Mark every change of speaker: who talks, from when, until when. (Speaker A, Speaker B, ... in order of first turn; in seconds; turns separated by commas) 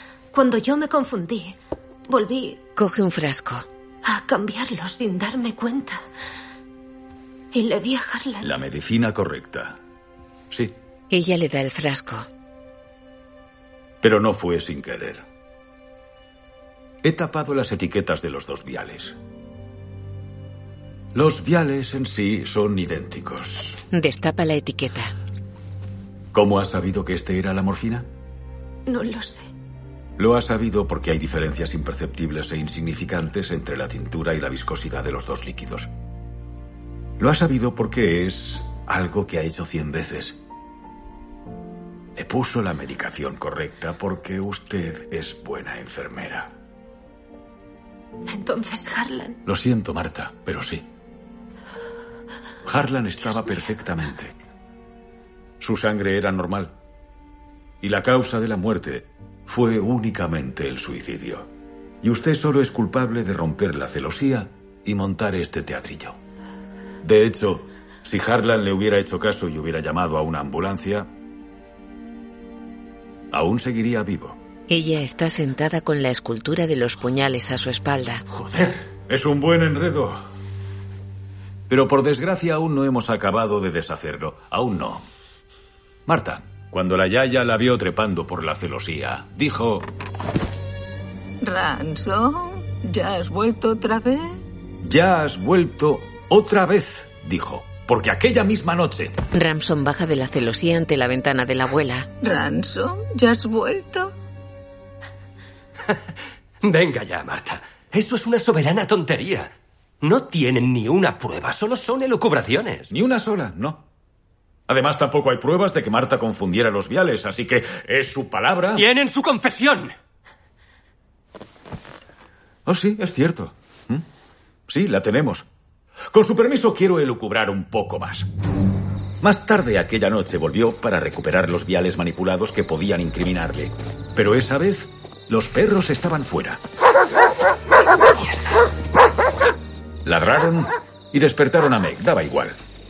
Speaker A: 0.3-1.6, Speaker A: 2.1-2.6, Speaker B: 2.8-3.6, Speaker A: 4.0-6.0, Speaker A: 7.5-8.5, Speaker C: 8.4-9.8, Speaker B: 11.1-12.3, Speaker C: 14.0-15.2, Speaker C: 17.0-19.1, Speaker C: 21.1-23.8, Speaker B: 23.9-25.1, Speaker C: 26.3-28.1, Speaker A: 28.9-29.4, Speaker C: 30.2-35.9, Speaker C: 37.2-40.4, Speaker C: 42.1-46.5, Speaker A: 48.3-49.4, Speaker C: 49.4-50.8, Speaker C: 52.6-54.3, Speaker C: 55.6-56.7, Speaker C: 57.8-61.5, Speaker C: 62.0-66.1, Speaker C: 67.0-71.1, Speaker C: 73.3-74.4, Speaker B: 74.7-78.2, Speaker C: 78.3-80.2, Speaker C: 81.7-85.0, Speaker C: 86.1-89.9, Speaker D: 91.4-94.4, Speaker C: 94.8-99.2, Speaker B: 99.3-102.1, Speaker D: 102.2-104.1, Speaker E: 106.6-109.5, Speaker E: 110.0-112.9, Speaker C: 112.9-113.8, Speaker C: 114.7-118.8, Speaker E: 118.7-119.9, Speaker C: 122.7-124.0, Speaker C: 124.7-125.4, Speaker C: 126.1-128.3, Speaker C: 129.2-136.6, Speaker C: 140.0-142.6